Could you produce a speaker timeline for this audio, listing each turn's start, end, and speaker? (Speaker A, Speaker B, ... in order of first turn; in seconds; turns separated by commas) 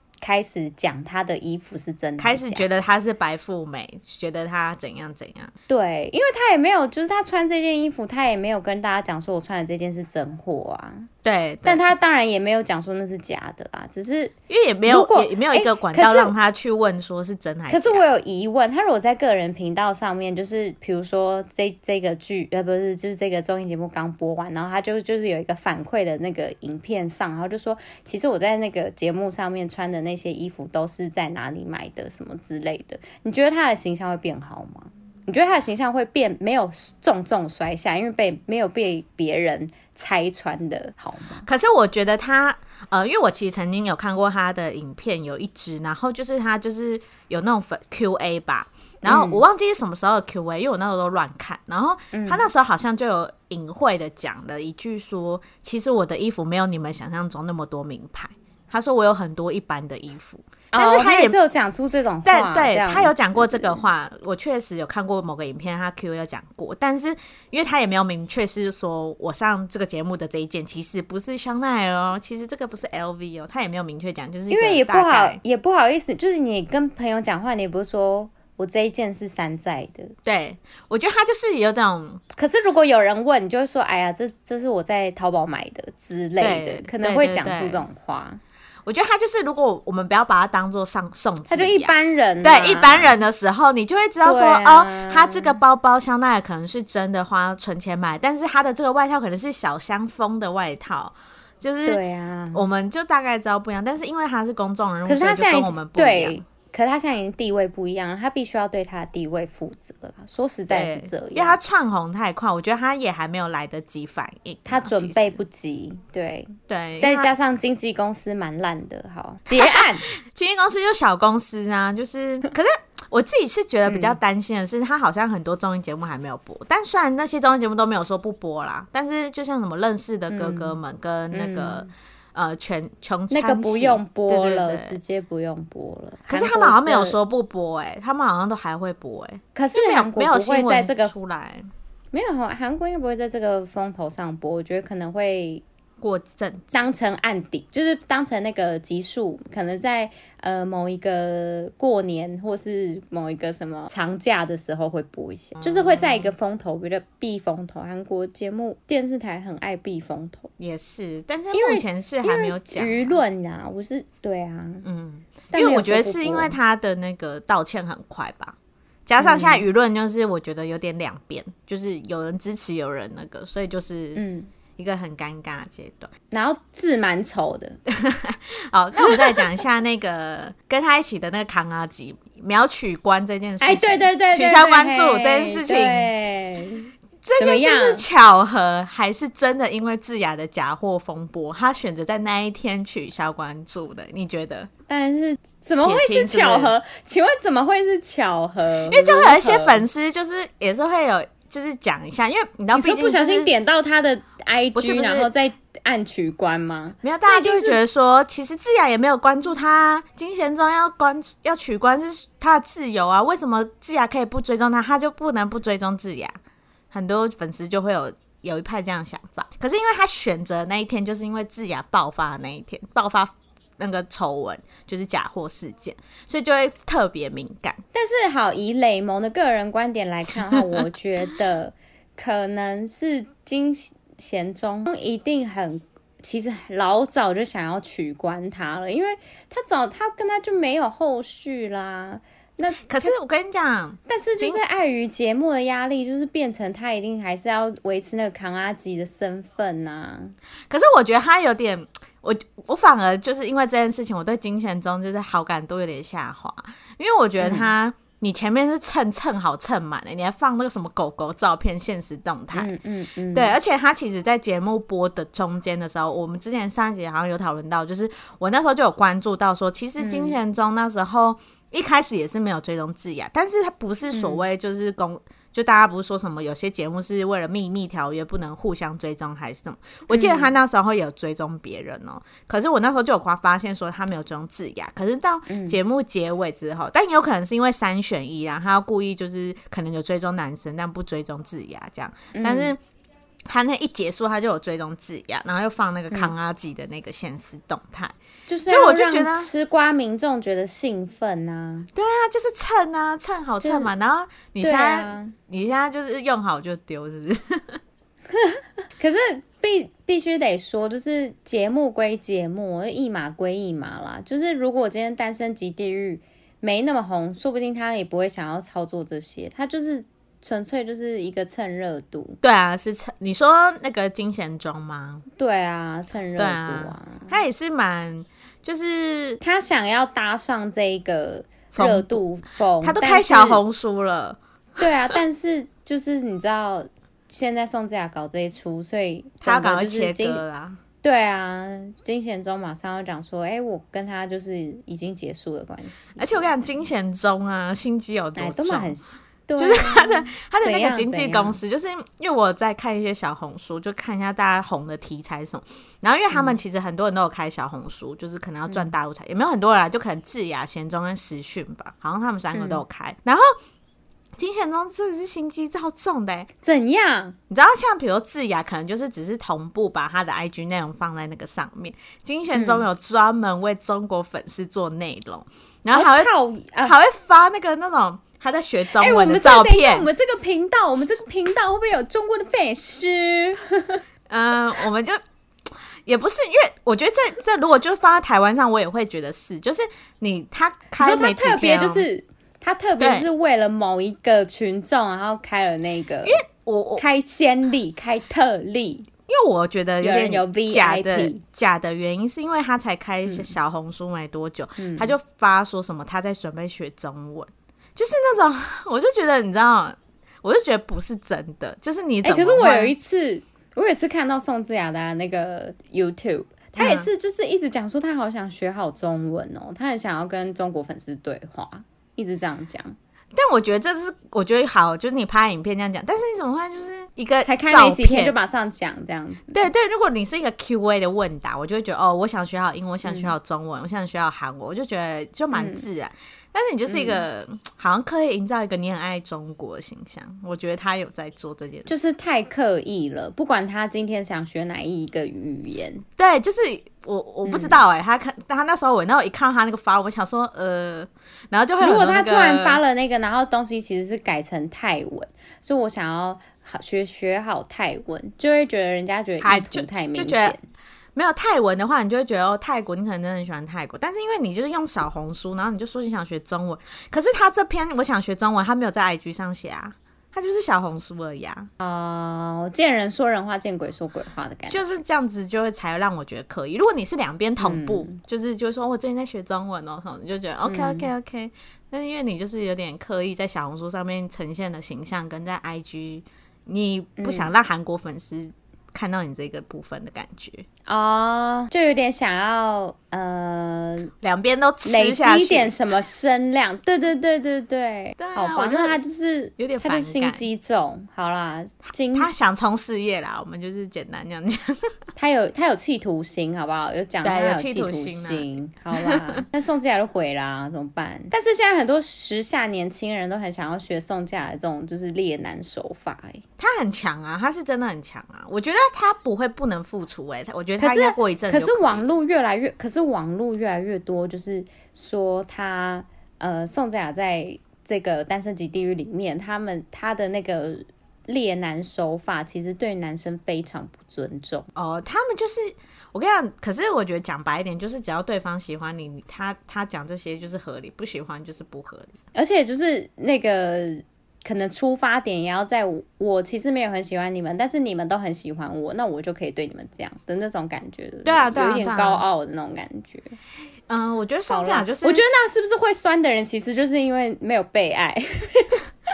Speaker A: 0.2-2.6, Speaker B: 2.2-5.5, Speaker A: 5.7-11.1, Speaker B: 11.2-11.8, Speaker A: 11.6-14.3, Speaker B: 14.5-18.0, Speaker A: 14.9-16.3, Speaker A: 17.7-41.5, Speaker B: 41.4-61.4, Speaker A: 49.0-49.4, Speaker A: 52.1-52.4, Speaker A: 60.7-63.8, Speaker B: 62.2-75.4, Speaker A: 74.5-80.1, Speaker B: 80.2-82.2, Speaker A: 82.3-88.4, Speaker B: 86.4-87.8, Speaker B: 88.8-102.0, Speaker A: 91.5-93.1, Speaker A: 94.2-95.6, Speaker A: 101.8-102.6, Speaker B: 102.5-106.4, Speaker A: 105.0-111.6, Speaker B: 110.7-115.4, Speaker A: 114.7-120.0, Speaker B: 116.7-117.3, Speaker B: 119.5-135.0, Speaker A: 123.9-124.2, Speaker A: 130.3-130.8, Speaker A: 131.3-131.9, Speaker A: 133.3-137.2, Speaker B: 136.3-141.7, Speaker A: 139.5-141.1, Speaker A: 142.1-145.6, Speaker B: 146.0-146.8, Speaker A: 146.7-160.5, Speaker B: 155.6-156.3, Speaker B: 160.6-163.2, Speaker A: 161.5-164.8, Speaker B: 164.8-174.2, Speaker A: 165.5-166.6, Speaker A: 169.2-169.7, Speaker A: 174.2-174.5, Speaker B: 174.8-176.1, Speaker A: 176.3-177.8, Speaker B: 177.9-186.1, Speaker A: 179.0-179.4, Speaker A: 183.6-188.0, Speaker B: 187.2-194.7, Speaker A: 194.9-199.8, Speaker B: 195.8-196.7, Speaker B: 198.9-203.5, Speaker A: 202.7-207.8, Speaker B: 204.7-205.3, Speaker B: 207.0-216.3, Speaker B: 216.9-227.8, Speaker A: 227.9-243.1, Speaker B: 242.8-244.6, Speaker A: 244.1-250.3, Speaker B: 250.7-262.7, Speaker A: 257.4-257.7, Speaker A: 262.5-263.6, Speaker B: 263.3-292.8, Speaker A: 270.0-270.4, Speaker A: 274.1-274.4, Speaker A: 280.1-280.5, Speaker A: 285.5-285.8, Speaker A: 292.3-292.7, Speaker B: 293.5-298.1, Speaker A: 298.5-301.9, Speaker B: 298.7-299.5, Speaker B: 301.9-307.8, Speaker A: 303.6-303.9, Speaker A: 304.6-305.3, Speaker A: 308.3-322.4, Speaker B: 322.4-325.2, Speaker A: 325.4-327.3, Speaker B: 326.4-329.4, Speaker A: 329.4-333.6, Speaker B: 331.7-332.2, Speaker B: 332.8-334.4, Speaker A: 334.8-340.4, Speaker B: 339.4-340.8, Speaker A: 341.0-346.5, Speaker B: 346.2-348.9, Speaker A: 348.4-351.6, Speaker B: 349.6-363.5, Speaker A: 356.3-356.6, Speaker A: 362.5-362.8, Speaker B: 364.4-366.5, Speaker A: 366.6-367.4, Speaker B: 367.5-376.3, Speaker A: 372.5-372.8, Speaker A: 375.9-377.0, Speaker B: 376.8-380.1, Speaker A: 379.0-384.0, Speaker B: 384.3-385.2, Speaker B: 386.0-392.1, Speaker A: 391.0-396.4, Speaker B: 393.0-393.3, Speaker B: 396.2-397.0, Speaker A: 397.0-399.1, Speaker B: 399.3-412.9, Speaker A: 400.0-401.4, Speaker A: 403.2-403.5, Speaker A: 404.8-405.1, Speaker A: 412.2-422.9, Speaker B: 416.8-417.1, Speaker B: 423.3-428.3, Speaker A: 427.4-429.6, Speaker B: 429.5-441.9, Speaker A: 433.0-433.3, Speaker A: 435.5-435.8, Speaker A: 436.9-437.2, Speaker A: 441.9-446.0, Speaker B: 446.2-452.8, Speaker A: 447.4-447.8, Speaker A: 451.8-460.6, Speaker B: 459.4-460.6, Speaker B: 461.1-471.7, Speaker A: 471.8-475.0, Speaker B: 474.7-490.6, Speaker A: 477.6-478.2, Speaker A: 480.6-481.1, Speaker A: 487.2-487.5, Speaker A: 490.9-494.1, Speaker B: 494.2-495.8, Speaker A: 494.8-502.3, Speaker B: 498.2-499.0, Speaker B: 499.6-500.4, Speaker B: 502.1-504.9, Speaker A: 505.1-516.4, Speaker B: 507.2-509.4, Speaker B: 516.6-522.1, Speaker A: 520.8-534.7, Speaker B: 534.7-542.2, Speaker A: 542.3-553.4, Speaker B: 551.2-552.2, Speaker B: 553.9-555.2, Speaker A: 554.5-558.8